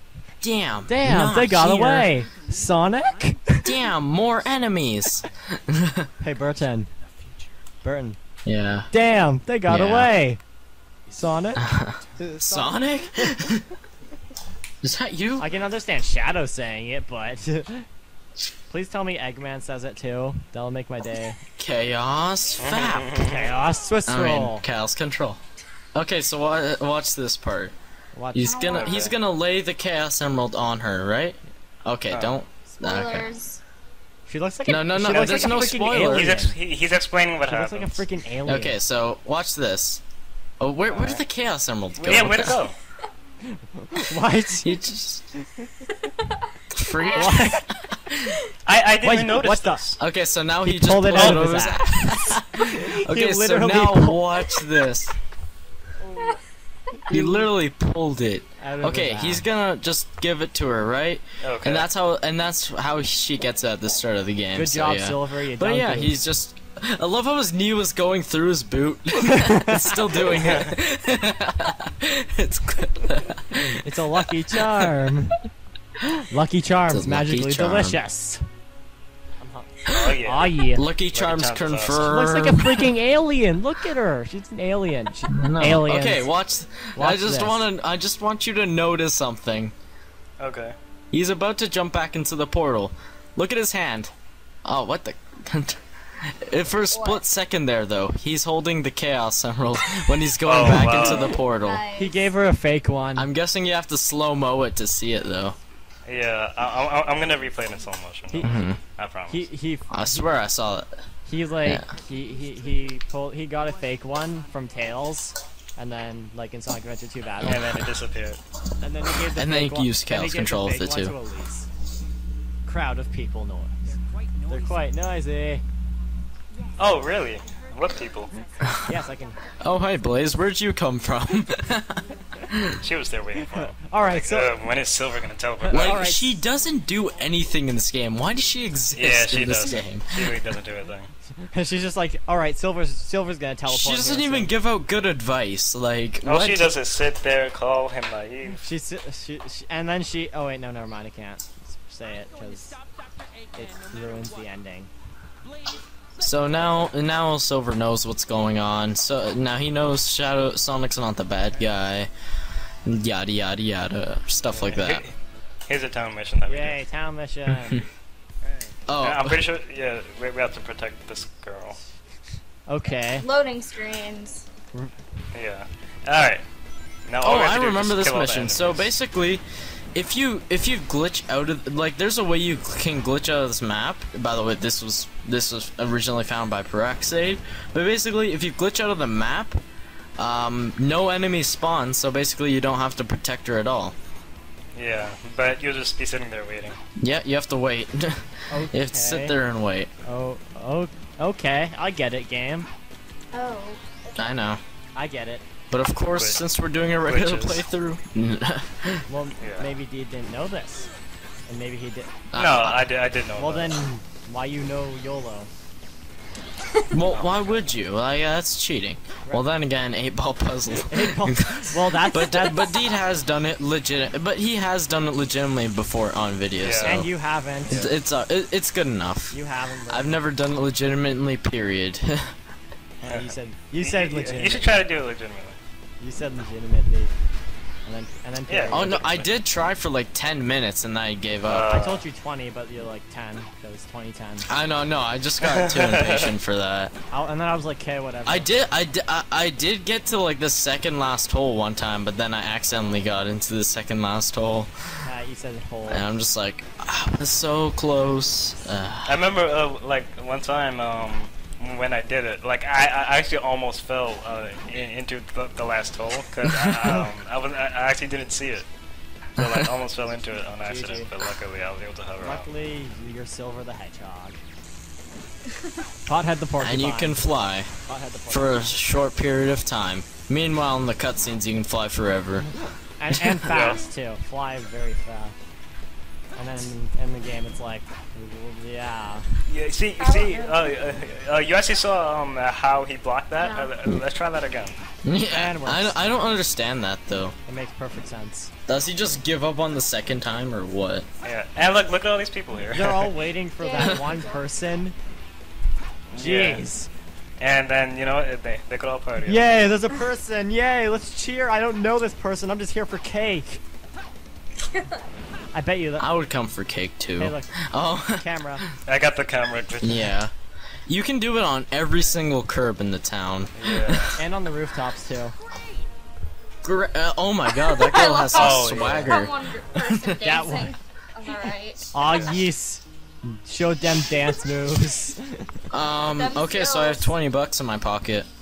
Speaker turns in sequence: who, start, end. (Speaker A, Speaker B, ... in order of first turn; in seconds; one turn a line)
Speaker A: 0.4-2.1
Speaker B: 0.8-3.7
Speaker A: 3.6-6.1
Speaker B: 6.2-6.9
Speaker B: 7.8-8.2
Speaker A: 8.4-8.9
Speaker B: 8.9-10.4
Speaker A: 9.7-10.1
Speaker B: 11.1-11.6
Speaker A: 11.6-13.6
Speaker B: 12.2-13.3
Speaker A: 14.8-15.5
Speaker B: 15.4-17.9
Speaker B: 18.7-21.4
Speaker A: 21.6-23.2
Speaker C: 22.6-23.5
Speaker B: 23.1-24.6
Speaker A: 24.1-25.4
Speaker A: 25.9-27.7
Speaker B: 28.1-28.7
Speaker A: 28.3-33.3
Speaker D: 28.4-29.1
Speaker C: 28.7-29.1
Speaker C: 32.1-32.3
Speaker D: 32.7-33.6
Speaker B: 34.3-36.5
Speaker A: 34.6-36.3
Speaker C: 35.0-38.0
Speaker B: 37.5-38.8
Speaker A: 38.5-40.0
Speaker A: 40.6-42.6
Speaker C: 40.9-41.2
Speaker C: 42.0-42.8
Speaker B: 43.8-44.7
Speaker A: 44.6-45.2
Speaker B: 45.4-45.6
Speaker A: 46.7-48.4
Speaker D: 47.0-47.6
Speaker B: 47.1-47.6
Speaker C: 48.6-50.0
Speaker B: 49.0-49.8
Speaker A: 50.0-55.1
Speaker B: 50.6-54.5
Speaker C: 51.1-51.6
Speaker B: 56.0-56.2
Speaker A: 57.1-73.8
Speaker B: 57.1-57.4
Speaker B: 58.6-59.5
Speaker C: 61.4-61.9
Speaker B: 64.5-66.2
Speaker B: 69.3-70.3
Speaker C: 70.3-70.7
Speaker B: 73.6-75.4
Speaker B: 76.3-78.4
Speaker A: 76.9-78.0
Speaker B: 79.4-80.8
Speaker C: 79.8-80.5
Speaker A: 79.9-82.9
Speaker C: 81.1-82.2
Speaker B: 81.9-86.3
Speaker A: 85.3-89.7
Speaker B: 87.0-87.6
Speaker C: 90.4-90.8
Speaker A: 91.1-94.1
Speaker A: 94.6-101.9
Speaker D: 96.9-97.2
Speaker C: 100.4-101.3
Speaker B: 100.7-101.0
Speaker D: 101.0-102.2
Speaker B: 102.0-103.3
Speaker A: 103.2-105.5
Speaker C: 106.0-109.5
Speaker B: 108.3-108.7
Speaker A: 108.4-108.8
Speaker B: 109.3-110.3
Speaker A: 109.9-110.9
Speaker B: 111.2-117.6
Speaker A: 117.4-117.8
Speaker C: 117.4-118.4
Speaker B: 118.8-121.7
Speaker A: 119.3-121.1
Speaker B: 122.7-123.8
Speaker B: 124.5-125.6
Speaker C: 126.8-128.3
Speaker B: 128.8-129.4
Speaker A: 129.6-132.8
Speaker C: 132.8-136.1
Speaker B: 133.5-134.5
Speaker A: 135.7-140.4
Speaker B: 135.7-136.3
Speaker C: 138.9-141.1
Speaker B: 141.4-144.5
Speaker A: 143.7-146.7
Speaker C: 146.2-148.6
Speaker B: 148.5-152.8
Speaker B: 153.5-154.9
Speaker A: 156.2-162.1
Speaker A: 162.8-165.0
Speaker C: 164.5-165.1
Speaker C: 165.7-166.8
Speaker B: 166.5-167.9
Speaker C: 168.4-171.8
Speaker A: 168.9-169.4
Speaker B: 172.7-173.3
Speaker D: 173.0-174.4
Speaker C: 175.3-176.4
Speaker C: 177.1-178.9
Speaker A: 177.2-179.4
Speaker A: 179.9-189.6
Speaker A: 190.2-193.9
Speaker C: 194.7-196.8
Speaker A: 197.0-199.9
Speaker B: 198.5-199.3
Speaker B: 200.0-202.7
Speaker D: 203.3-204.3
Speaker A: 204.1-204.6
Speaker B: 204.9-205.4
Speaker A: 205.7-209.0
Speaker C: 206.1-206.4
Speaker C: 207.0-207.6
Speaker B: 209.1-210.9
Speaker C: 209.4-209.7
Speaker B: 211.5-212.1
Speaker A: 212.3-212.8
Speaker C: 212.3-213.8
Speaker B: 213.3-215.5
Speaker A: 216.9-227.1
Speaker C: 217.1-217.6
Speaker B: 220.9-222.8
Speaker C: 226.6-227.0
Speaker B: 226.8-227.9
Speaker A: 227.7-229.4
Speaker B: 229.3-230.2
Speaker A: 229.9-232.3
Speaker B: 233.0-234.8
Speaker C: 233.1-235.6
Speaker B: 236.0-237.1
Speaker B: 237.8-239.3
Speaker C: 238.5-239.0
Speaker A: 238.7-241.8
Speaker C: 241.4-242.0
Speaker B: 241.7-244.5
Speaker A: 244.4-246.9
Speaker C: 245.4-246.3
Speaker B: 247.1-248.5
Speaker A: 248.2-255.1
Speaker B: 255.0-256.0
Speaker A: 255.9-259.2
Speaker C: 259.1-268.7
Speaker C: 269.4-272.4
Speaker B: 270.6-271.1
Speaker B: 272.2-274.4
Speaker B: 276.1-277.3
Speaker A: 276.6-277.7
Speaker B: 277.9-278.7
Speaker A: 278.3-282.5
Speaker B: 283.0-285.3
Speaker C: 283.5-283.8
Speaker B: 286.4-289.2
Speaker C: 289.5-294.8
Speaker D: 290.0-290.6
Speaker D: 293.4-293.7
Speaker A: 295.0-297.3
Speaker B: 295.2-296.0
Speaker B: 297.4-298.5
Speaker A: 298.7-301.1
Speaker C: 301.2-303.1
Speaker B: 302.7-304.9
Speaker D: 303.6-304.4
Speaker C: 306.1-306.7
Speaker B: 306.1-306.9
Speaker C: 307.4-309.6
Speaker B: 309.2-313.6
Speaker B: 315.5-316.1
Speaker A: 316.0-318.2
Speaker B: 317.2-318.6
Speaker C: 318.9-320.1
Speaker A: 319.8-320.3
Speaker A: 320.9-324.2
Speaker C: 323.6-324.1
Speaker B: 324.2-325.3
Speaker A: 326.6-330.2
Speaker D: 327.8-331.9
Speaker C: 328.3-329.2
Speaker B: 330.2-330.7
Speaker B: 331.9-335.6
Speaker C: 332.0-332.4
Speaker A: 335.7-338.3
Speaker D: 336.0-337.1